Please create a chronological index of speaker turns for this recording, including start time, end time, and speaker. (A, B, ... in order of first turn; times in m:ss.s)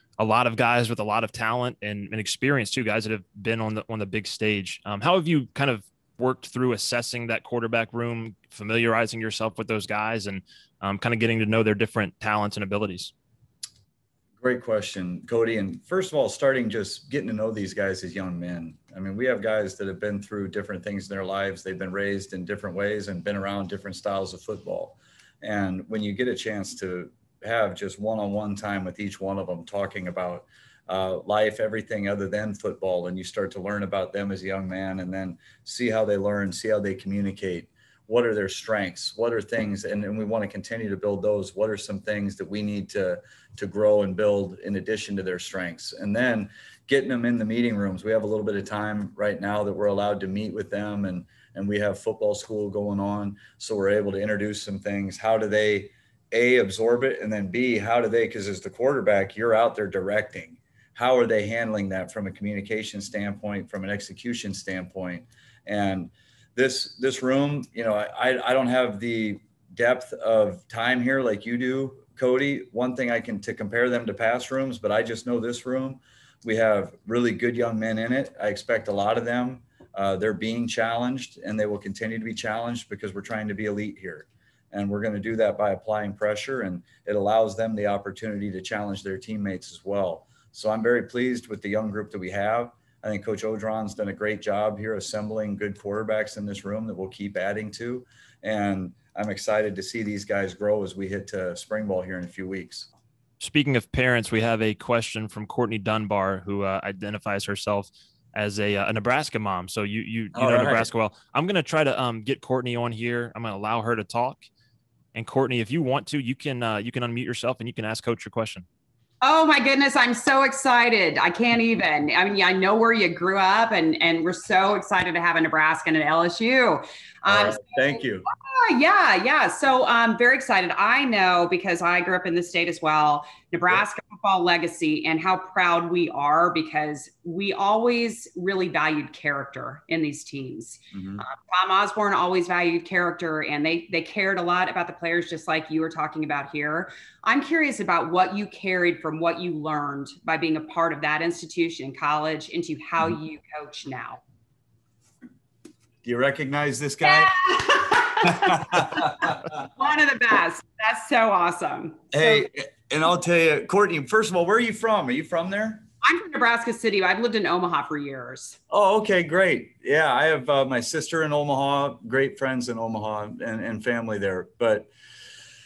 0:00.2-0:13.1 A
0:14.4-1:42.9 B
1:43.4-1:54.5 A
1:50.3-1:50.9 B
1:55.1-1:58.6 A
1:59.2-2:34.2 C
2:07.3-2:08.2 B
2:20.9-2:21.2 B
2:36.0-2:37.3 B
2:37.0-2:42.5 C
2:38.2-2:39.4 B
2:42.1-2:45.8 B
2:46.0-2:48.6 C
2:48.7-2:54.9 B